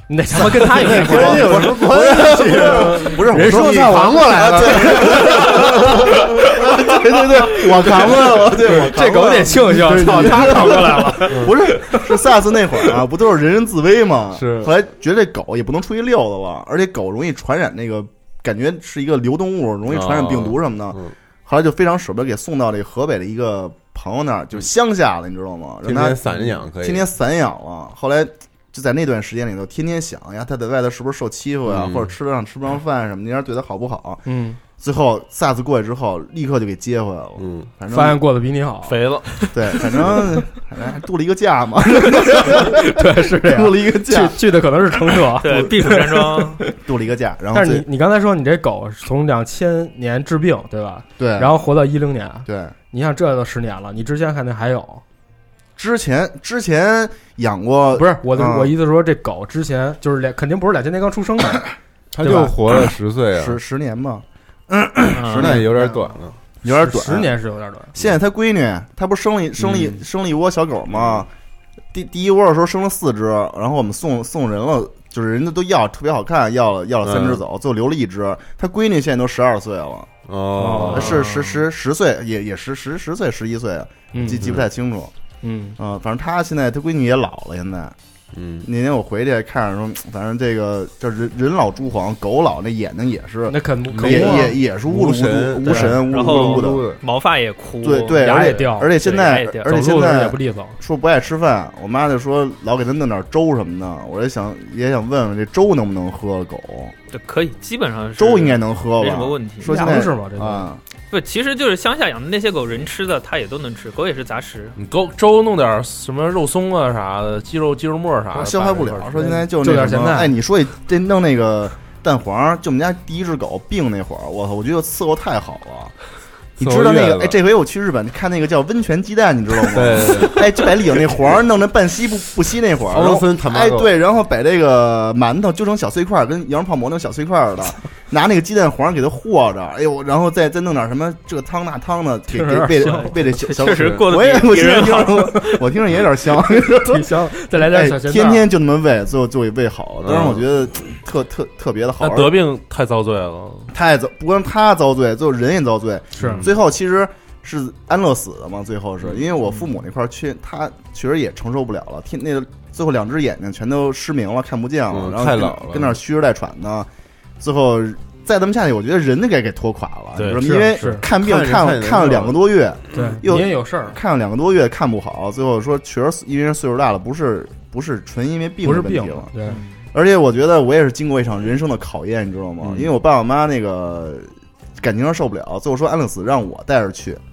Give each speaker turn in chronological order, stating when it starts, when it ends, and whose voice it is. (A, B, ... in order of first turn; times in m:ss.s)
0:00.1-0:05.8 A
0:00.3-0:34.2 B
0:00.4-0:06.9 C
0:08.1-0:12.3 A
0:09.8-0:11.6 C
0:14.3-0:14.7 C
0:19.9-0:21.1 C
0:25.8-0:27.1 C
0:31.6-0:32.1 C
0:34.2-0:34.6 A
0:34.8-0:38.2 B
0:37.4-0:37.7 C
0:37.9-0:40.2 A
0:38.8-0:39.4 D
0:39.5-0:45.1 B
0:42.0-0:46.7 A
0:45.4-0:46.6 E
0:46.8-0:47.8 B
0:47.5-0:55.0 A
0:51.2-0:51.6 B
0:52.4-0:52.7 B
0:55.8-0:58.7 B
0:57.9-1:01.7 A
1:02.1-1:03.6 C
1:02.2-1:02.5 A
1:03.3-1:06.0 B
1:05.1-1:05.6 E
1:05.3-1:06.3 C
1:06.6-1:07.3 B
1:06.6-1:07.9 A
1:07.9-1:11.3 B
1:09.6-1:10.0 C
1:10.9-1:11.2 C
1:11.9-1:20.1 B
1:17.0-1:17.4 C
1:20.3-1:21.2 C
1:20.6-1:21.4 A
1:20.9-1:25.1 B
1:24.1-1:24.4 A
1:24.4-1:24.7 C
1:25.4-1:25.8 A
1:25.8-1:27.9 B
1:28.3-1:28.7 C
1:28.6-1:36.9 B
1:33.5-1:34.5 A
1:33.9-1:37.0 C
1:35.6-1:36.0 A
1:36.1-1:39.7 E
1:37.8-1:46.9 B
1:38.1-1:38.9 A
1:39.6-1:40.8 A
1:47.1-1:50.0 E
1:48.2-1:50.8 B
1:49.6-1:50.7 A
1:51.1-1:54.8 E
1:54.8-1:59.2 D
1:58.3-2:06.0 B
1:59.2-2:00.3 A
2:06.6-2:32.4 B
2:06.6-2:07.4 C
2:09.7-2:10.6 C
2:12.9-2:13.9 C
2:22.3-2:23.1 A
2:22.8-2:25.5 E
2:23.6-2:24.0 C
2:26.7-2:28.5 A
2:30.0-2:30.4 C
2:32.0-2:33.7 D
2:33.7-2:46.9 B
2:36.2-2:36.4 A
2:44.9-2:46.0 C
2:47.4-2:59.3 B
2:50.2-2:51.0 D
2:50.4-2:51.0 A
2:51.0-2:52.4 C
2:52.9-2:54.0 A
2:58.6-2:59.6 A
2:59.5-2:59.7 E
2:59.9-3:07.2 B
3:02.6-3:03.0 C